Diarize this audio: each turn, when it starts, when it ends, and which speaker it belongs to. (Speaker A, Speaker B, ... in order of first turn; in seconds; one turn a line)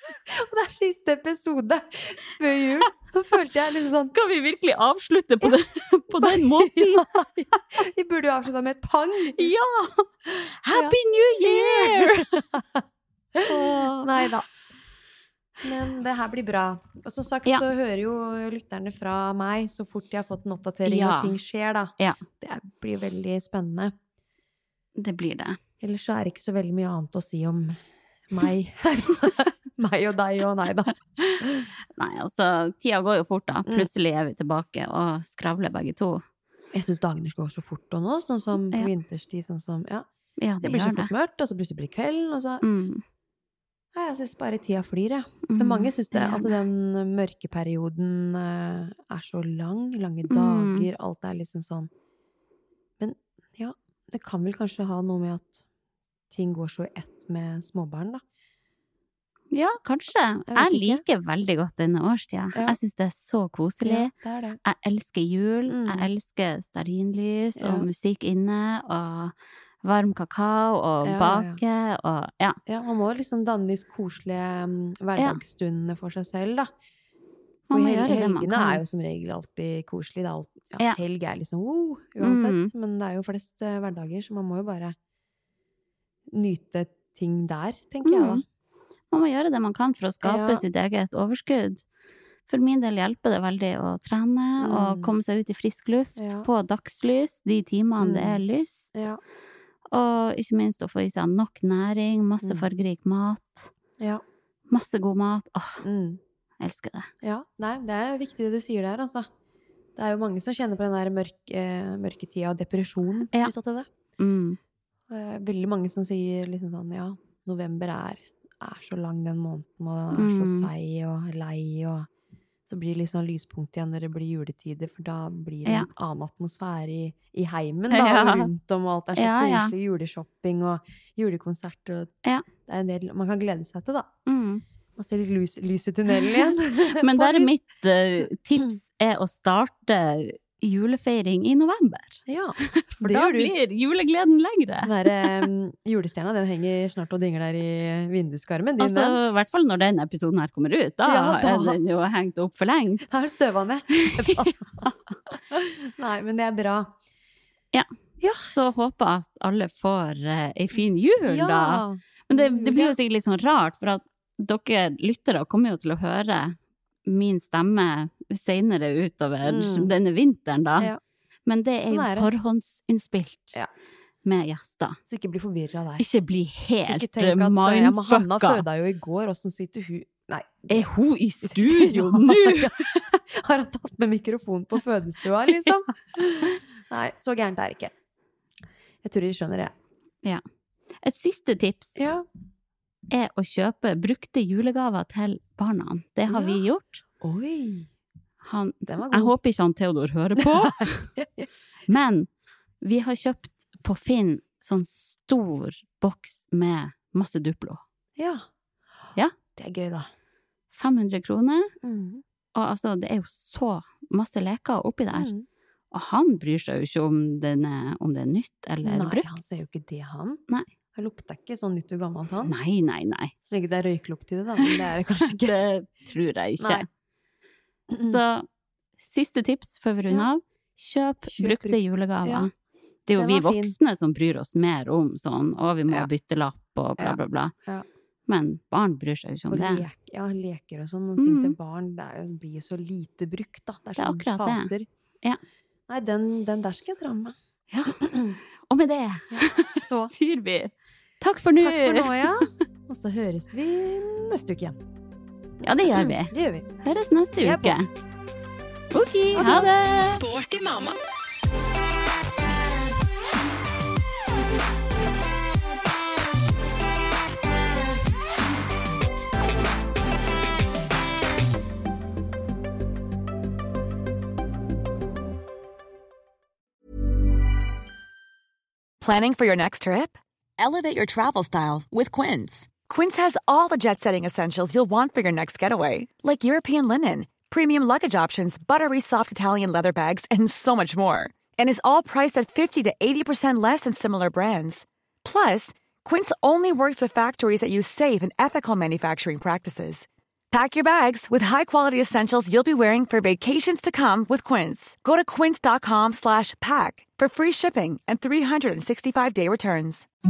Speaker A: 0.3-4.1
Speaker B: 4.0-7.1
Speaker A: 6.2-9.5
Speaker B: 9.4-12.4
Speaker A: 10.7-12.8
Speaker A: 13.3-14.5
Speaker B: 13.5-14.3
Speaker A: 15.6-23.9
Speaker B: 20.9-21.4
Speaker B: 25.0-25.6
Speaker A: 25.8-31.7
Speaker B: 31.9-36.2
Speaker A: 36.7-40.1
Speaker B: 40.4-41.1
Speaker A: 40.6-42.6
Speaker B: 42.6-43.0
Speaker A: 43.9-51.9
Speaker B: 45.5-46.6
Speaker B: 50.3-50.9
Speaker A: 53.0-55.6
Speaker A: 56.3-58.2
Speaker B: 59.5-64.1
Speaker A: 60.5-61.0
Speaker A: 63.8-64.6
Speaker B: 64.6-72.6
Speaker A: 65.7-66.1
Speaker A: 67.6-67.9
Speaker A: 71.0-71.6
Speaker A: 72.7-76.7
Speaker B: 75.2-75.4
Speaker B: 77.7-78.8
Speaker A: 77.7-85.0
Speaker B: 82.2-82.7
Speaker A: 86.3-88.4
Speaker B: 88.0-88.4
Speaker B: 89.1-91.8
Speaker A: 90.2-90.6
Speaker B: 92.5-99.1
Speaker A: 94.6-95.2
Speaker A: 96.2-96.5
Speaker A: 98.0-98.4
Speaker A: 99.0-99.2
Speaker B: 99.9-103.7
Speaker B: 104.7-105.8
Speaker A: 105.8-106.2
Speaker B: 106.6-107.1
Speaker A: 107.2-109.3
Speaker A: 110.0-113.9
Speaker B: 114.2-114.6
Speaker A: 115.1-122.1
Speaker B: 120.2-120.7
Speaker A: 122.7-132.1
Speaker B: 127.9-128.5
Speaker B: 129.2-129.8
Speaker A: 132.7-134.1
Speaker B: 134.3-134.6
Speaker A: 135.0-137.6
Speaker B: 136.9-145.5
Speaker A: 142.3-143.6
Speaker A: 144.8-149.2
Speaker B: 148.8-153.1
Speaker A: 151.1-151.8
Speaker A: 153.1-156.9
Speaker B: 154.0-154.9
Speaker B: 157.7-170.9
Speaker A: 158.2-158.5
Speaker A: 161.2-163.0
Speaker A: 169.4-169.9
Speaker B: 171.5-173.6
Speaker A: 171.9-172.3
Speaker B: 174.2-175.0
Speaker A: 175.1-176.1
Speaker B: 176.0-178.7
Speaker A: 176.9-180.8
Speaker B: 180.7-182.7
Speaker A: 181.4-187.9
Speaker A: 189.0-189.7
Speaker B: 191.0-192.1
Speaker A: 192.0-192.2
Speaker B: 193.1-197.0
Speaker A: 196.3-196.6
Speaker A: 197.2-197.9
Speaker B: 198.4-201.1
Speaker A: 198.9-199.3
Speaker A: 200.4-201.5
Speaker B: 201.9-202.3
Speaker B: 202.8-207.8
Speaker A: 208.2-208.5
Speaker A: 209.6-210.1
Speaker B: 210.7-211.7
Speaker A: 211.8-212.2
Speaker B: 212.6-215.3
Speaker A: 215.1-215.5
Speaker B: 215.9-219.6
Speaker A: 218.8-220.4
Speaker A: 220.9-222.6
Speaker B: 222.5-223.3
Speaker A: 223.4-225.6
Speaker B: 225.4-226.9
Speaker A: 226.6-226.9
Speaker A: 227.9-228.2
Speaker B: 228.0-228.5
Speaker B: 229.0-232.5
Speaker A: 231.3-232.5
Speaker B: 233.1-237.5
Speaker A: 233.1-233.8
Speaker A: 237.0-237.9
Speaker B: 238.3-239.9
Speaker A: 239.5-244.9
Speaker B: 241.2-241.6
Speaker B: 244.0-245.4
Speaker A: 245.9-247.3
Speaker B: 247.7-248.0
Speaker A: 248.0-248.4
Speaker B: 248.7-252.5
Speaker A: 249.3-250.1
Speaker A: 251.6-254.8
Speaker B: 255.6-257.9
Speaker A: 255.9-256.7
Speaker A: 257.4-257.8
Speaker B: 258.9-260.3
Speaker A: 259.4-259.7
Speaker C: 279.0-310.1